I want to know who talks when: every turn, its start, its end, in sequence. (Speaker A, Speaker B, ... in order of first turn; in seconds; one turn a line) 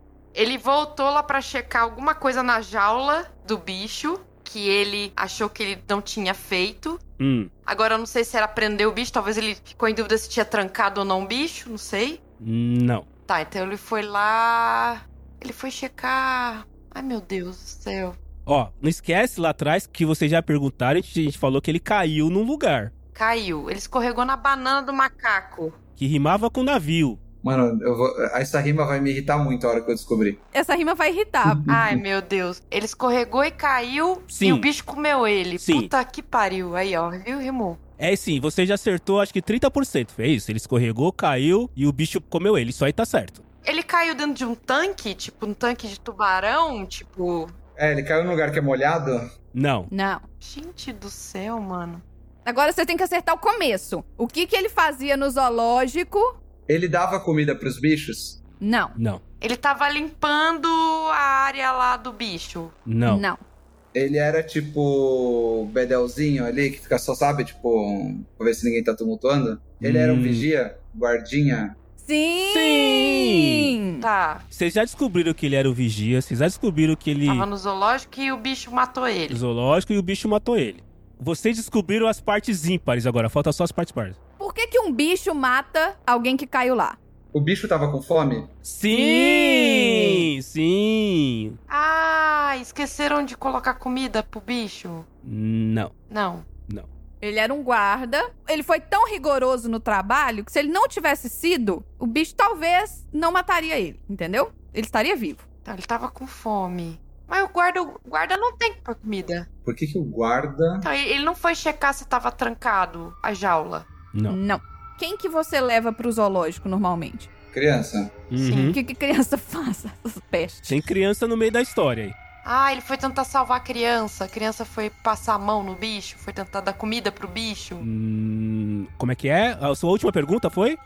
Speaker A: 0.3-7.0
Speaker B: 7.2-7.5
Speaker A: 7.7-12.2
Speaker B: 12.4-13.1
Speaker A: 13.3-18.2
Speaker B: 18.4-22.9
Speaker A: 23.1-25.8
Speaker B: 26.0-27.2
Speaker C: 27.4-30.4
Speaker D: 30.5-31.7
Speaker C: 31.4-32.0
Speaker A: 31.7-37.8
Speaker B: 34.3-34.7
Speaker B: 35.6-35.9
Speaker B: 38.0-43.4
Speaker A: 43.6-47.5
Speaker C: 47.8-49.2
Speaker B: 49.5-49.9
Speaker D: 49.9-50.2
Speaker A: 50.4-52.0
Speaker D: 52.4-56.4
Speaker C: 56.7-58.4
Speaker D: 58.6-59.0
Speaker B: 59.0-59.2
Speaker A: 59.4-62.7
Speaker B: 62.9-63.2
Speaker D: 63.0-63.4
Speaker C: 63.9-71.8
Speaker B: 69.8-70.5
Speaker D: 72.0-74.0
Speaker B: 72.4-73.7
Speaker A: 74.0-74.4
Speaker B: 74.5-77.5
Speaker A: 77.3-79.4
Speaker B: 79.3-84.2
Speaker D: 84.4-87.0
Speaker C: 87.3-88.5
Speaker B: 88.6-91.6
Speaker D: 88.9-90.2
Speaker A: 91.7-95.0
Speaker B: 95.2-95.9
Speaker A: 96.1-96.5
Speaker D: 97.2-105.4
Speaker A: 105.6-109.5
Speaker C: 109.6-110.9
Speaker A: 110.8-113.9
Speaker D: 114.3-117.3
Speaker C: 117.5-118.1
Speaker B: 118.3-118.8
Speaker A: 118.4-118.8
Speaker D: 118.7-120.8
Speaker B: 120.7-122.1
Speaker A: 122.4-127.8
Speaker B: 127.8-130.8